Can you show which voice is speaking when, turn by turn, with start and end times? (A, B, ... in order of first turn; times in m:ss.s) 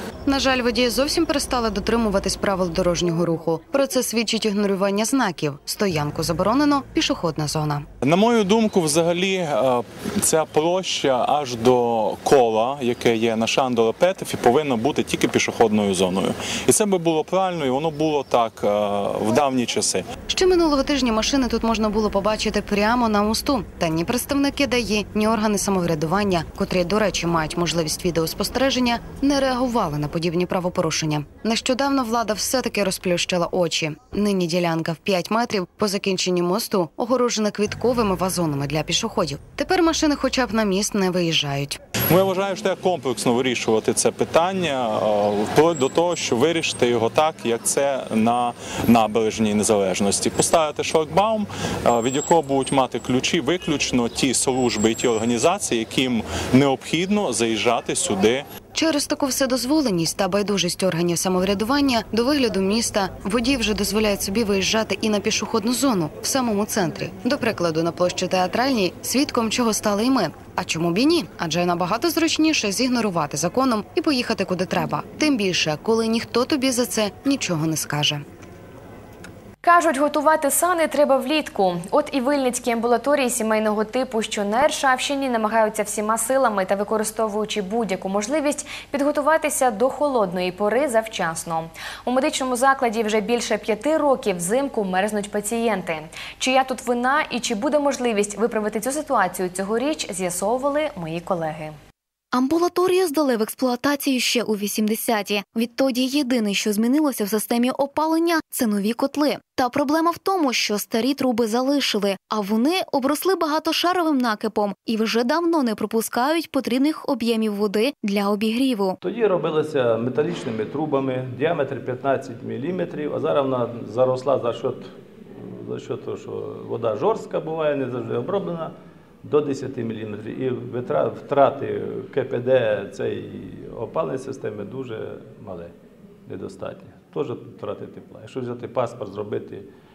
0:00.3-0:07.9 A
0:08.0-0:20.0 B
0:20.3-0:41.8 A
0:42.1-0:58.4 B
0:58.7-1:18.2 A
1:19.6-1:41.8 C
1:42.3-1:59.0 D
1:59.0-2:15.7 E
2:16.2-2:19.7 E